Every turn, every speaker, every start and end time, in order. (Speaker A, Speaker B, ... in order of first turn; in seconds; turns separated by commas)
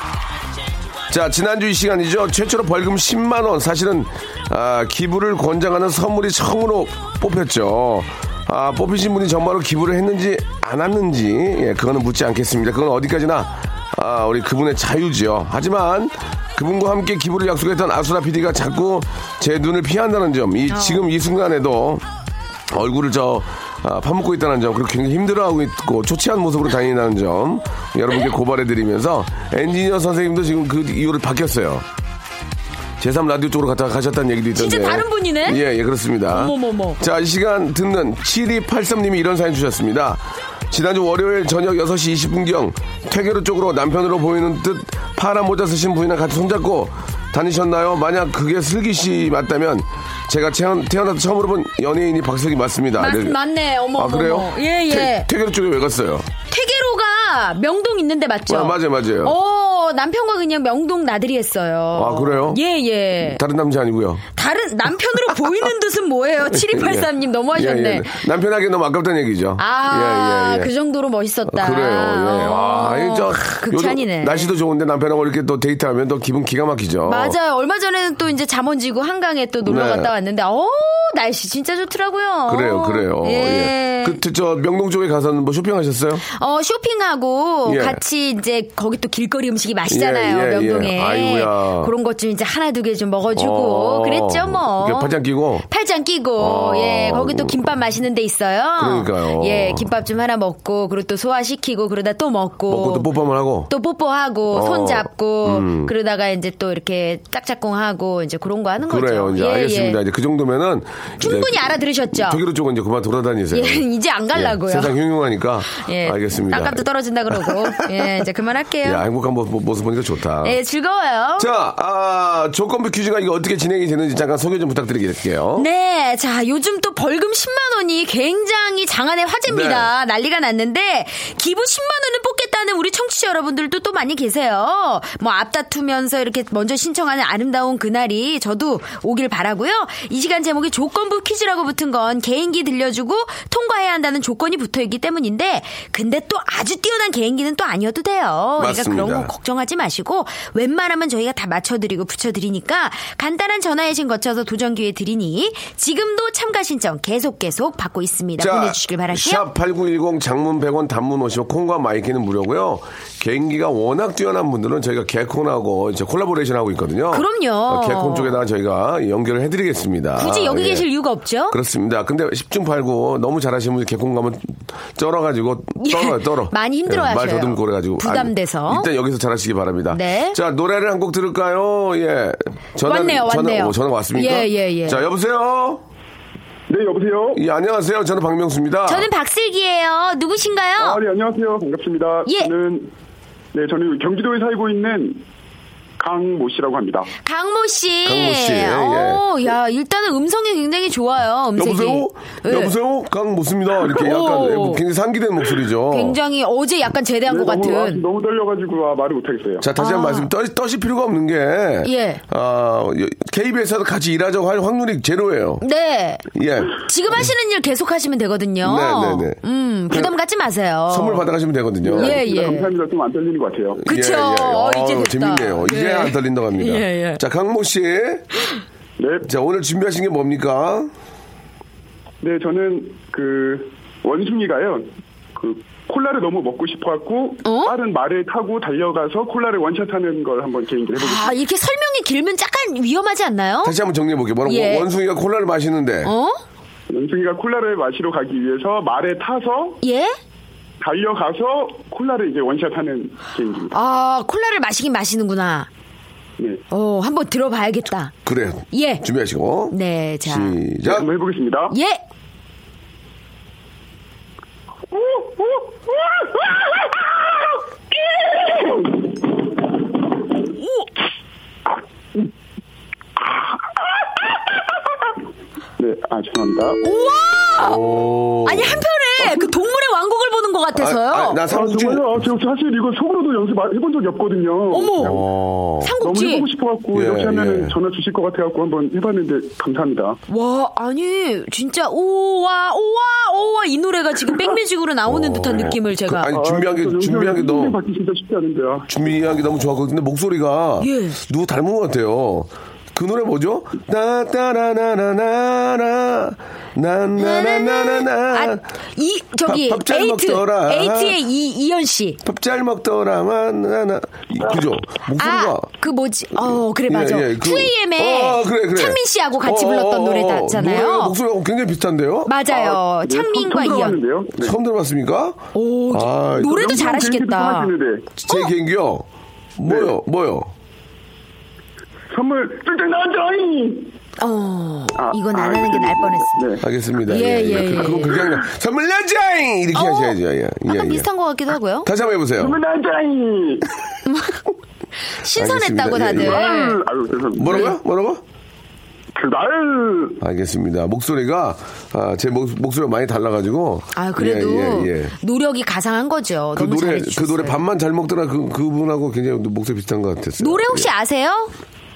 Speaker A: 1.1-22.1, Speaker B: 20.7-21.0, Speaker A: 22.7-31.9, Speaker A: 33.0-53.4, Speaker B: 34.5-35.6, Speaker B: 36.3-37.0, Speaker B: 53.0-55.3, Speaker A: 54.0-56.3, Speaker B: 56.5-63.4, Speaker A: 58.5-59.4, Speaker A: 61.9-62.6, Speaker A: 63.2-64.2, Speaker B: 64.4-68.1, Speaker A: 66.5-70.7, Speaker B: 69.6-74.5, Speaker A: 71.5-77.4, Speaker B: 77.0-84.2, Speaker A: 79.6-80.1, Speaker A: 82.5-86.2, Speaker B: 86.3-95.2, Speaker A: 87.7-88.0, Speaker A: 89.9-91.9, Speaker A: 93.3-95.7, Speaker B: 95.7-103.1, Speaker A: 96.4-97.6, Speaker A: 98.8-99.9, Speaker A: 102.7-103.7, Speaker B: 103.7-110.0, Speaker A: 104.5-105.9, Speaker A: 108.8-118.1, Speaker B: 111.2-112.4, Speaker B: 113.5-114.9, Speaker B: 115.7-119.0, Speaker A: 118.8-120.6, Speaker B: 120.4-121.5, Speaker A: 121.4-125.7, Speaker B: 125.6-159.5, Speaker A: 129.5-129.9, Speaker A: 148.6-149.3, Speaker A: 158.4-170.9, Speaker B: 167.1-168.3, Speaker B: 170.2-171.6, Speaker A: 171.5-185.8, Speaker B: 175.8-178.9, Speaker B: 179.9-180.4, Speaker B: 182.8-185.0, Speaker C: 186.7-187.4, Speaker A: 187.3-189.1, Speaker B: 188.9-191.0, Speaker C: 190.8-192.9, Speaker B: 192.3-192.5, Speaker C: 193.5-195.2, Speaker C: 196.0-197.1, Speaker B: 197.2-202.7, Speaker A: 198.1-199.2, Speaker A: 201.6-206.2, Speaker B: 203.9-204.8, Speaker B: 205.9-208.0, Speaker C: 207.3-209.7, Speaker A: 209.6-215.6, Speaker B: 209.8-210.3, Speaker B: 211.8-212.2, Speaker B: 215.6-216.3, Speaker A: 216.3-216.8, Speaker B: 216.8-221.3, Speaker A: 218.6-219.4, Speaker A: 220.9-222.2, Speaker C: 221.9-223.8, Speaker B: 221.9-222.7, Speaker A: 223.8-228.3, Speaker B: 223.9-227.2, Speaker C: 229.0-229.3, Speaker A: 229.2-230.9, Speaker C: 232.2-241.3, Speaker B: 237.4-237.7, Speaker B: 241.0-243.8, Speaker A: 243.6-246.1, Speaker B: 244.5-244.9, Speaker B: 246.1-246.4, Speaker C: 246.9-249.8, Speaker B: 249.8-250.2, Speaker C: 250.8-253.7, Speaker B: 253.7-255.7, Speaker B: 256.7-258.1, Speaker A: 258.3-261.1, Speaker B: 258.7-259.0, Speaker B: 259.7-260.6, Speaker C: 260.9-261.8, Speaker B: 261.7-262.0, Speaker C: 264.9-269.8, Speaker B: 270.5-270.9, Speaker C: 273.2-275.1, Speaker C: 275.8-276.8, Speaker B: 276.8-277.8, Speaker A: 277.6-278.8, Speaker B: 278.4-281.4, Speaker A: 280.8-282.1, Speaker C: 281.5-285.2, Speaker B: 284.7-285.2, Speaker A: 285.0-285.9, Speaker B: 285.8-286.5, Speaker C: 286.0-290.2, Speaker A: 286.9-287.8, Speaker B: 290.3-296.3, Speaker A: 295.1-297.8, Speaker C: 296.3-298.9, Speaker A: 298.9-308.6, Speaker B: 300.8-301.2, Speaker B: 307.2-312.2, Speaker A: 309.4-311.2, Speaker A: 312.2-315.7, Speaker B: 315.2-321.2, Speaker A: 316.4-322.3, Speaker B: 322.3-324.0, Speaker C: 322.5-324.6, Speaker A: 324.4-326.8, Speaker B: 325.5-327.7, Speaker C: 326.4-328.1, Speaker A: 328.2-329.1, Speaker A: 329.6-330.5, Speaker C: 329.7-329.9, Speaker C: 332.1-333.9, Speaker B: 334.2-336.4, Speaker C: 334.9-336.7, Speaker A: 336.6-341.1, Speaker B: 337.1-338.2, Speaker B: 339.7-340.2, Speaker B: 340.7-341.9, Speaker A: 341.9-342.6, Speaker C: 342.4-343.7, Speaker B: 344.1-344.4, Speaker B: 345.1-346.8, Speaker A: 345.3-346.5, Speaker C: 346.1-347.7, Speaker A: 347.4-348.2, Speaker B: 347.5-347.7, Speaker C: 349.1-350.2, Speaker A: 350.2-355.1, Speaker B: 353.9-357.6, Speaker A: 356.6-360.9, Speaker B: 360.4-361.5